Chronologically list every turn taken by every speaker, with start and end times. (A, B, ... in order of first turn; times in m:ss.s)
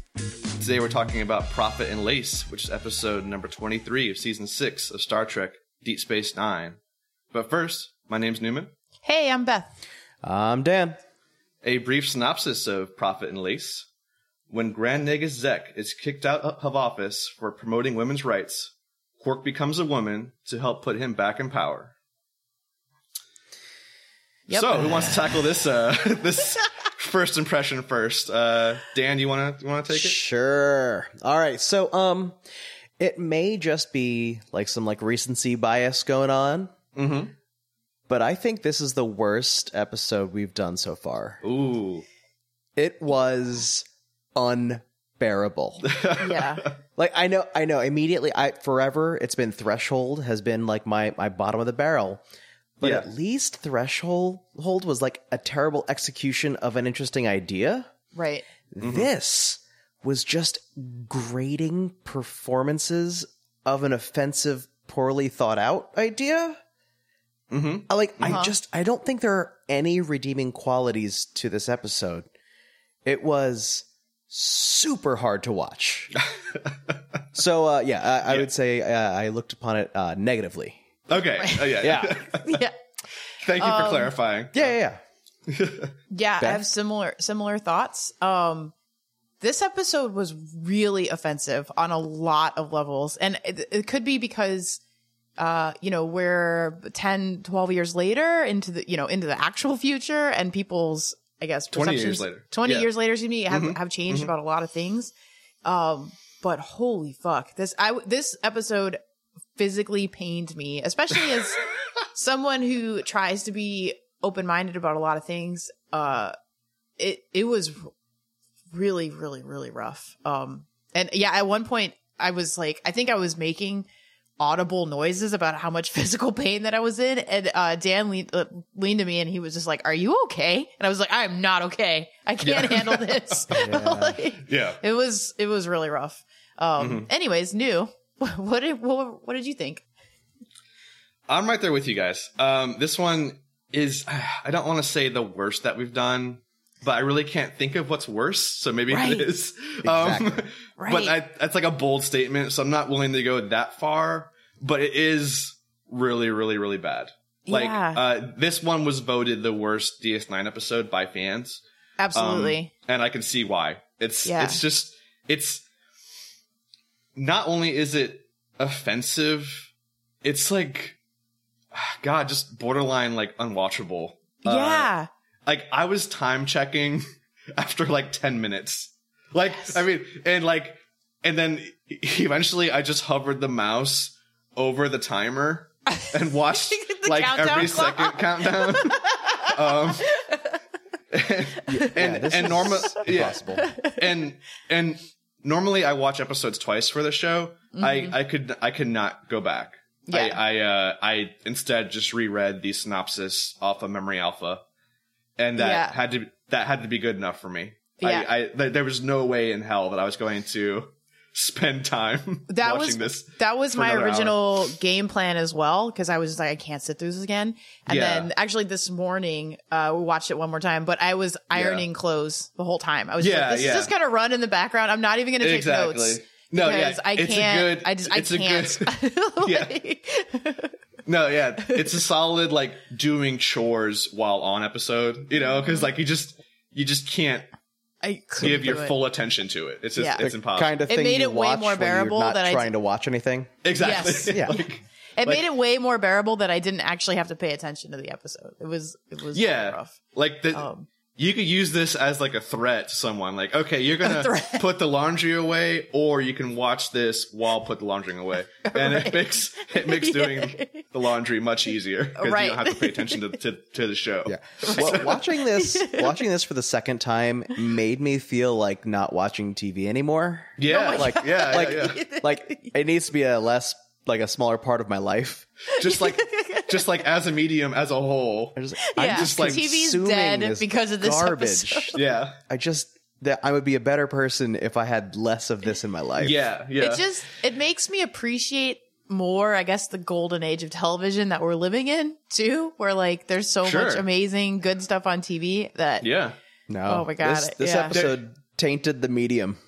0:00.6-0:06.8 A
0:07.3-0:08.7 A
0:09.0-0:09.7 B
0:10.2-0:11.0 C
0:11.6-0:13.9 A
0:14.5-0:21.9 A
0:24.5-0:25.4 B
0:24.5-0:30.2 A
0:29.9-0:32.4 C
0:33.0-0:36.7 C
0:37.0-0:37.3 A
0:38.1-0:41.4 C
0:41.4-0:42.1 A
0:42.8-0:45.9 C
0:45.8-0:46.8 A
0:46.2-0:46.6 B
0:47.0-0:52.2 C
0:52.8-0:57.9 C
0:58.2-0:58.5 B
0:58.7-1:06.6 C
0:58.8-0:59.1 A
1:07.5-1:08.4 A
1:07.9-1:12.3 C
1:08.3-1:08.5 B
1:13.0-1:16.1 C
1:16.2-1:16.7 A
1:17.3-1:20.8 C
1:21.1-1:22.6 A
1:21.4-1:22.8 B
1:21.8-1:22.2 C
1:23.4-1:24.8 A
1:23.6-1:24.2 B
1:24.5-1:25.0 C
1:25.5-1:25.9 A
1:26.1-1:28.7 B
1:26.4-1:26.7 C
1:29.4-1:34.8 B
1:35.4-1:45.1 B
1:41.7-1:42.9 A
1:43.5-1:44.3 A
1:45.6-1:49.0 B
1:49.6-1:56.4 B
1:57.0-1:57.9 B
1:58.7-2:03.9 B
2:04.4-2:19.8 B
2:12.4-2:13.6 A
2:13.5-2:14.2 C
2:14.4-2:14.8 A
2:16.8-2:17.1 A
2:21.3-2:41.6 A
2:28.9-2:29.3 B
2:29.8-2:30.5 C
2:30.8-2:31.2 B
2:37.5-2:38.0 B
2:42.0-2:42.7 B
2:42.1-2:45.6 A
2:44.2-2:44.6 B
2:47.2-2:49.7 A
2:50.2-2:51.0 A
2:51.7-2:54.9 A
2:54.4-2:55.1 B
2:55.5-2:57.0 A
2:57.6-3:10.2 A
3:05.9-3:10.6 B
3:11.1-3:24.6 A
3:11.7-3:13.7 C
3:13.6-3:14.1 B
3:17.7-3:18.1 B
3:20.1-3:20.4 B
3:25.4-3:34.6 A
3:25.6-3:26.0 B
3:28.0-3:28.3 B
3:32.5-3:50.8 B
3:37.9-3:38.3 A
3:41.6-3:41.8 A
3:43.2-3:43.9 A
3:45.4-3:49.8 A
3:51.0-3:57.5 A
3:51.6-3:52.0 B
3:55.4-3:55.9 B
3:58.0-3:59.0 B
3:58.4-4:00.8 A
4:00.0-4:00.3 B
4:00.2-4:03.6 C
4:00.9-4:02.7 B
4:03.6-4:05.5 A
4:03.8-4:04.6 B
4:04.3-4:04.6 C
4:05.2-4:10.0 B
4:09.3-4:25.3 A
4:10.5-4:10.9 B
4:14.0-4:14.6 B
4:18.7-4:20.9 B
4:22.2-4:23.2 B
4:24.3-4:35.5 C
4:24.6-4:26.2 B
4:30.6-4:32.0 A
4:30.7-4:32.7 B
4:35.7-4:36.9 B
4:35.8-4:39.6 A
4:38.6-4:46.4 C
4:38.8-4:42.0 B
4:42.0-4:42.4 A
4:46.2-4:47.1 A
4:46.8-4:56.1 B
4:53.6-4:54.1 A
4:56.0-4:56.4 A
4:56.7-4:59.6 C
4:56.9-4:58.0 B
4:57.9-4:58.2 A